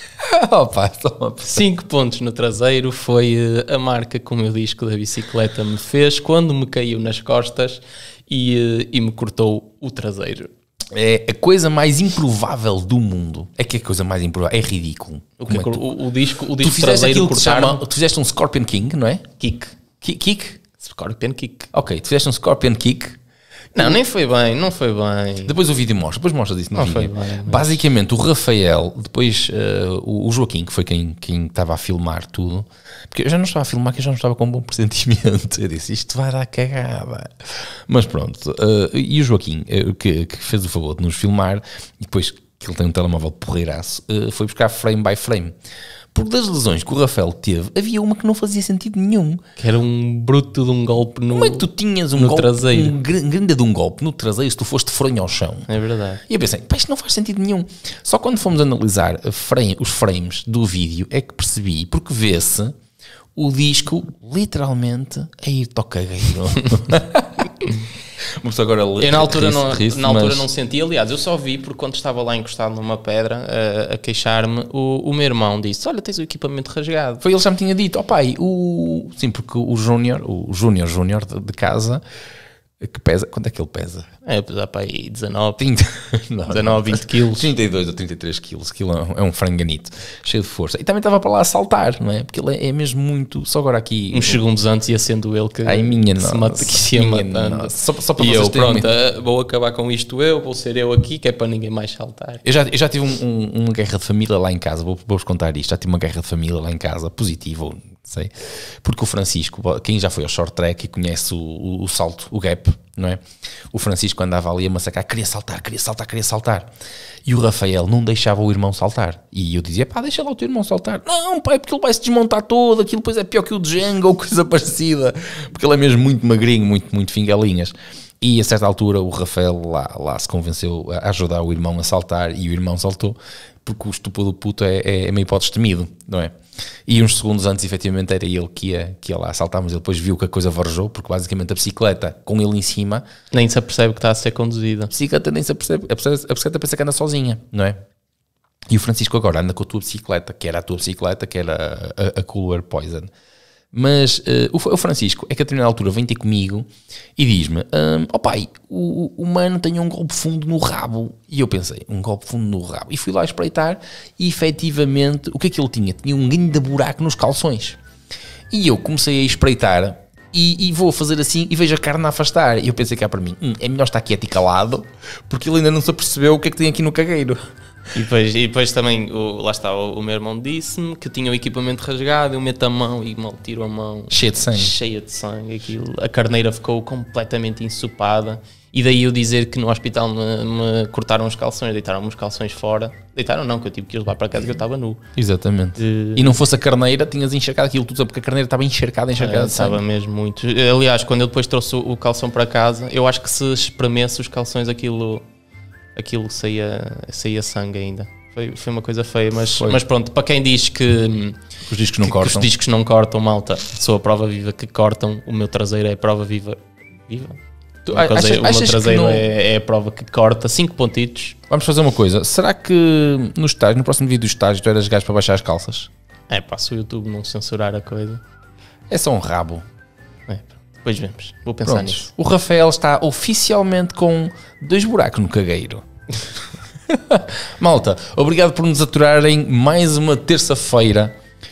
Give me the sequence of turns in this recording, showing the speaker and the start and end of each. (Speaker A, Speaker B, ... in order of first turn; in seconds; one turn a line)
Speaker A: 0.2-1.6
Speaker B: 1.5-10.5
Speaker A: 10.9-15.9
Speaker B: 15.4-17.8
Speaker A: 16.6-19.3
Speaker B: 19.4-20.1
Speaker A: 20.0-20.6
Speaker B: 20.6-21.7
Speaker A: 21.7-23.2
Speaker B: 23.7-25.5
Speaker A: 25.4-45.5
Speaker B: 26.7-27.8
Speaker A: 46.1-49.4
Speaker B: 49.6-52.9
Speaker A: 51.3-55.7
Speaker B: 55.7-56.2
Speaker A: 56.3-62.8
Speaker A: 63.3-67.8
Speaker A: 68.3-70.5
Speaker B: 69.0-77.2
Speaker A: 77.2-82.0
Speaker A: 82.8-84.1
Speaker B: 84.2-85.6
Speaker A: 85.6-94.4
Speaker B: 86.5-87.5
Speaker B: 94.1-102.4
Speaker A: 95.6-98.9
Speaker A: 102.4-113.2
Speaker A: 113.7-116.7
Speaker A: 117.2-136.3
Speaker A: 136.9-143.1
Speaker B: 143.3-144.9
Speaker A: 144.9-147.8
Speaker A: 148.7-153.1
Speaker A: 153.7-167.8
Speaker A: 168.5-177.4
Speaker B: 177.9-195.0
Speaker A: 184.1-184.7
Speaker A: 195.2-199.8
Speaker B: 195.8-196.4
Speaker B: 199.2-205.2
Speaker B: 205.9-211.4
Speaker A: 209.5-209.8
Speaker A: 211.7-212.5
Speaker B: 212.0-221.4
Speaker A: 217.8-219.2
Speaker A: 221.5-225.9
Speaker B: 226.3-228.2
Speaker A: 228.9-229.6
Speaker B: 230.3-232.1
Speaker A: 231.6-235.8
Speaker A: 236.9-241.1